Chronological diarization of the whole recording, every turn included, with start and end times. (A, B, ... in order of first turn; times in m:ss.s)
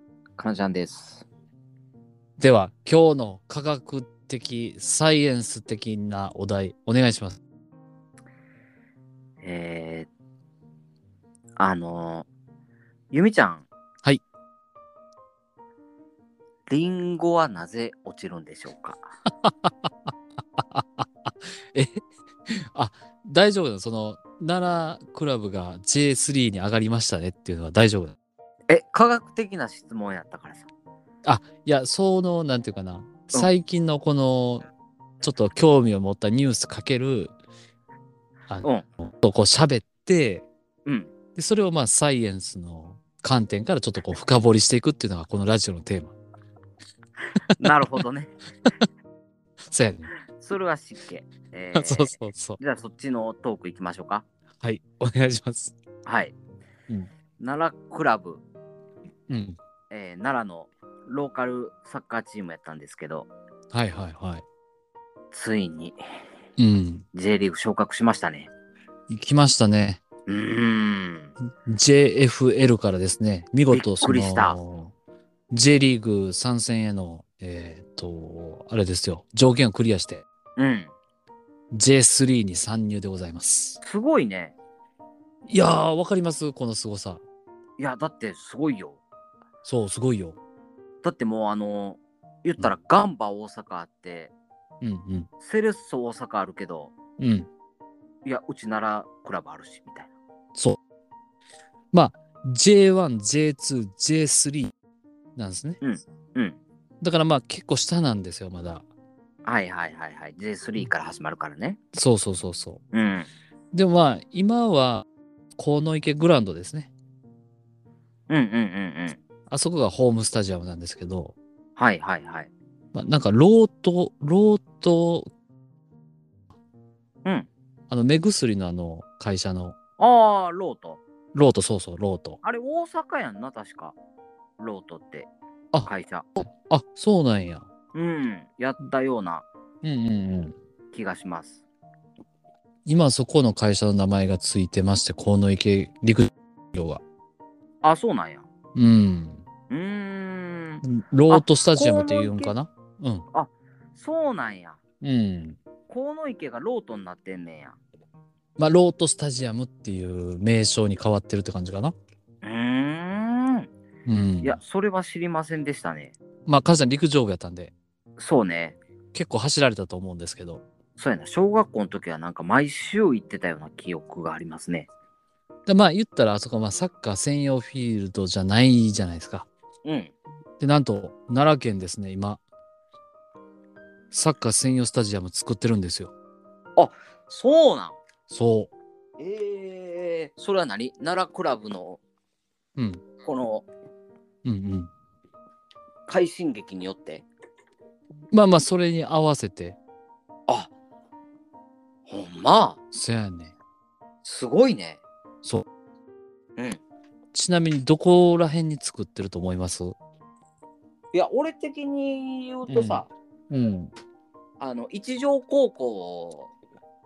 0:00.4-0:01.2 A
0:02.4-0:07.4 B
0:09.4-0:10.1 A
0:11.6-0:12.3 A
0:13.1-0:13.7 A
0:16.7-0:19.0 A
0:19.4-0:28.1 B
0:28.7-0:30.7 A
0:31.2-0:34.7 B
0:35.2-0:37.3 B
0:38.5-0:40.4 B
0:40.8-0:41.1 A
0:41.3-0:46.1 B
0:47.6-0:48.3 A
0:49.7-0:50.1 B
0:50.4-0:54.2 A
0:51.8-0:52.6 B
0:54.6-0:55.7 B
0:56.0-0:56.3 A
0:57.4-0:58.4 A
0:59.3-0:59.6 B
0:59.9-1:03.3 A
1:03.7-1:04.4 B
1:05.3-1:06.0 A
1:06.6-1:07.0 B
1:07.1-1:08.5 A
1:09.1-1:10.0 B
1:10.3-1:11.3 A
1:11.6-1:14.9 B
1:13.7-1:14.6 A
1:15.5-1:20.2 B
1:20.6-1:20.9 A
1:21.7-1:23.8 B
1:23.8-1:24.6 A
1:25.5-1:27.2 B
1:27.8-1:29.0 A
1:29.6-1:30.4 B
1:31.0-1:34.3 A
1:34.8-1:35.3 B
1:35.4-1:36.9 A
1:37.2-1:37.5 B
1:38.2-1:40.1 A
1:41.9-1:44.7 B
1:45.4-1:45.8 B
1:45.8-1:46.6 A
1:47.0-1:48.8 B
1:49.4-1:51.8 A
1:51.9-1:52.8 B
1:52.9-1:53.3 A
1:53.7-1:56.9 B
1:58.3-1:59.2 A
1:59.5-2:01.4 B
2:01.8-2:02.5 A
2:02.9-2:05.3 B
2:07.9-2:09.8 B
2:10.0-2:11.0 A
2:11.3-2:12.4 B
2:12.4-2:13.9 A
2:14.6-2:15.3 A
2:15.7-2:17.7 B
2:15.8-2:16.3 A
2:17.9-2:19.4 A
2:19.8-2:20.5 B
2:20.9-2:21.6 A
2:22.8-2:27.0 B
2:27.8-2:28.4 A
2:28.7-2:29.4 B
2:29.7-2:32.5 A
2:30.8-2:33.2 B
2:33.3-2:34.8 A
2:35.0-2:35.6 B
2:35.9-2:37.8 A
2:38.6-2:41.9 B
2:42.4-2:43.7 A
2:44.0-2:44.6 B
2:44.4-2:46.1 A
2:46.4-2:47.7 B
2:48.2-2:48.8 A
2:49.1-2:50.6 B
2:51.0-2:54.9 A
2:55.6-2:59.5 B
2:59.8-3:00.1 A
3:00.6-3:02.4 B
3:04.1-3:06.1 B
3:06.8-3:08.0 A
3:08.3-3:08.7 B
3:09.2-3:12.0 A
3:12.8-3:13.0 B
3:13.2-3:13.7 A
3:14.4-3:14.9 B
3:16.1-3:17.2 A
3:18.3-3:19.8 B
3:22.0-3:22.8 A
3:22.9-3:23.5 B
3:24.2-3:25.0 A
3:27.3-3:30.0 B
3:31.1-3:33.1 A
3:32.7-3:33.9 B
3:34.6-3:36.5 A